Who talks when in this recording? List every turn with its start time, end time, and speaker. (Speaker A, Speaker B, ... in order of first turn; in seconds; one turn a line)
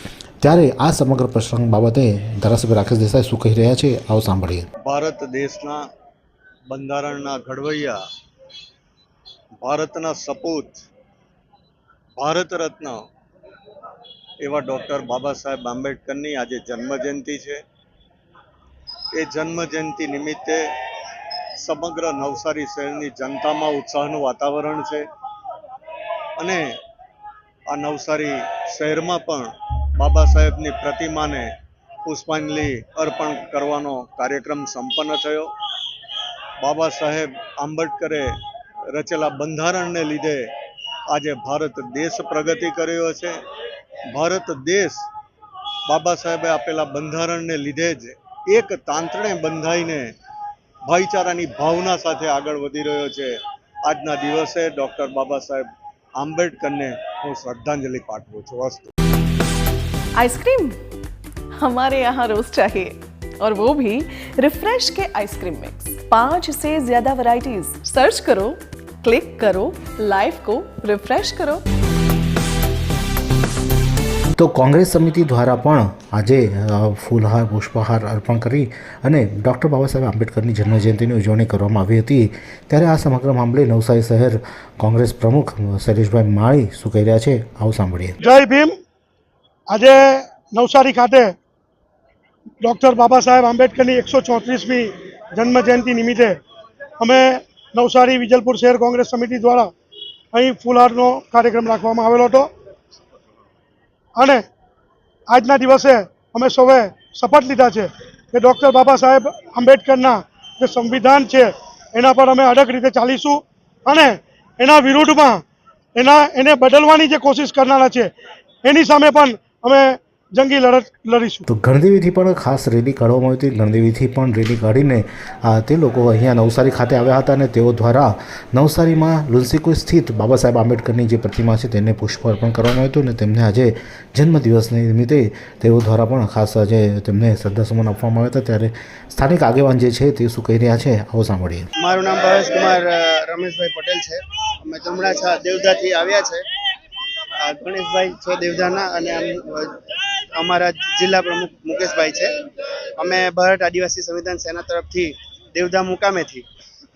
Speaker A: 0.4-4.7
Speaker B: 4.8-5.8
Speaker B: 6.7-8.0
Speaker B: 9.6-10.8
Speaker B: 12.2-13.0
Speaker B: 14.4-17.6
Speaker B: 19.1-20.6
Speaker B: 21.6-25.1
Speaker B: 26.4-26.7
Speaker B: 27.7-31.5
Speaker B: 32.0-35.5
Speaker B: 36.6-38.3
Speaker B: 38.9-40.5
Speaker B: 41.1-43.4
Speaker B: 44.1-45.0
Speaker B: 45.9-50.1
Speaker B: 50.9-53.3
Speaker B: 53.8-58.9
Speaker C: 60.2-60.7
Speaker C: 61.6-71.6
Speaker A: 74.3-88.2
Speaker D: 88.2-88.7
Speaker D: 89.7-91.3
Speaker D: 92.6-96.4
Speaker D: 97.0-99.7
Speaker D: 100.3-102.5
Speaker D: 104.2-104.4
Speaker D: 105.3-115.4
Speaker D: 116.0-118.1
Speaker D: 118.6-121.4
Speaker A: 121.5-141.7
Speaker E: 141.8-146.4
Speaker E: 147.5-149.5
Speaker E: 150.4-152.3
Speaker E: 153.0-156.4